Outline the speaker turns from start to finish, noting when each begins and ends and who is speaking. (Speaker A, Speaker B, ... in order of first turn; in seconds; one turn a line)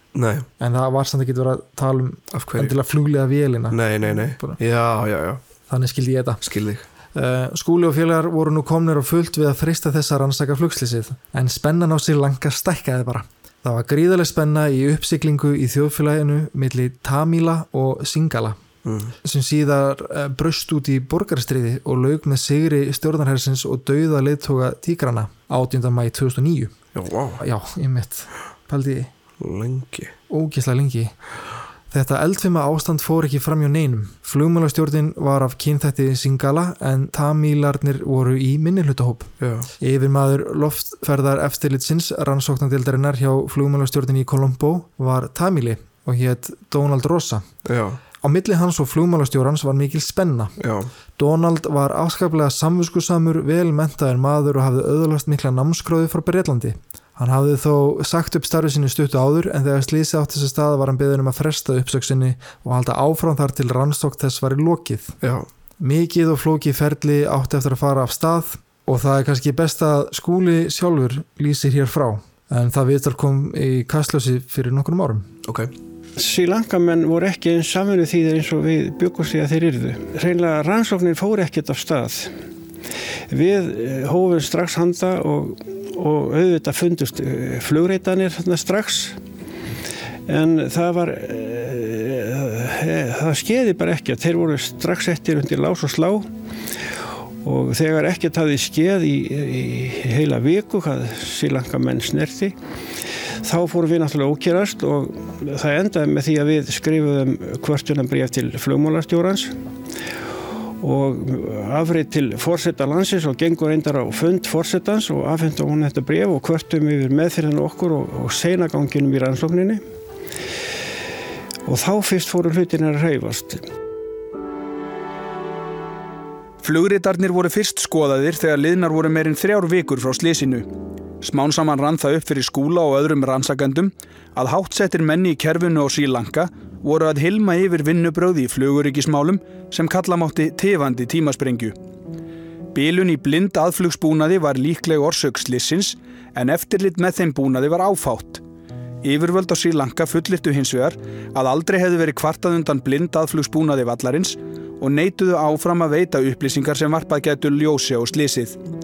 Speaker A: 0.1-0.5
Speaker B: 0.6-4.6
Speaker A: 2.3-2.8
Speaker A: 3.7-5.4
Speaker B: 5.7-6.4
Speaker A: 6.4-6.8
Speaker B: 7.1-18.6
Speaker A: 18.8-19.1
Speaker B: 19.2-26.8
Speaker A: 26.9-27.4
Speaker B: 27.4-29.1
Speaker A: 29.4-30.1
Speaker B: 30.3-31.2
Speaker B: 31.9-47.5
Speaker A: 39.4-39.7
Speaker A: 47.6-48.0
Speaker B: 48.2-50.6
Speaker A: 50.6-50.9
Speaker B: 51.2-65.2
Speaker A: 65.2-65.5
Speaker B: 65.8-75.3
Speaker A: 75.4-75.7
Speaker C: 76.2-82.3
Speaker C: 83.3-89.2
Speaker C: 90.3-96.3
Speaker C: 97.4-102.6
Speaker C: 103.4-109.6
Speaker C: 110.8-119.8
Speaker C: 121.7-123.6
Speaker D: 126.6-130.7
Speaker D: 131.2-141.8
Speaker D: 142.7-148.4
Speaker D: 149.0-158.6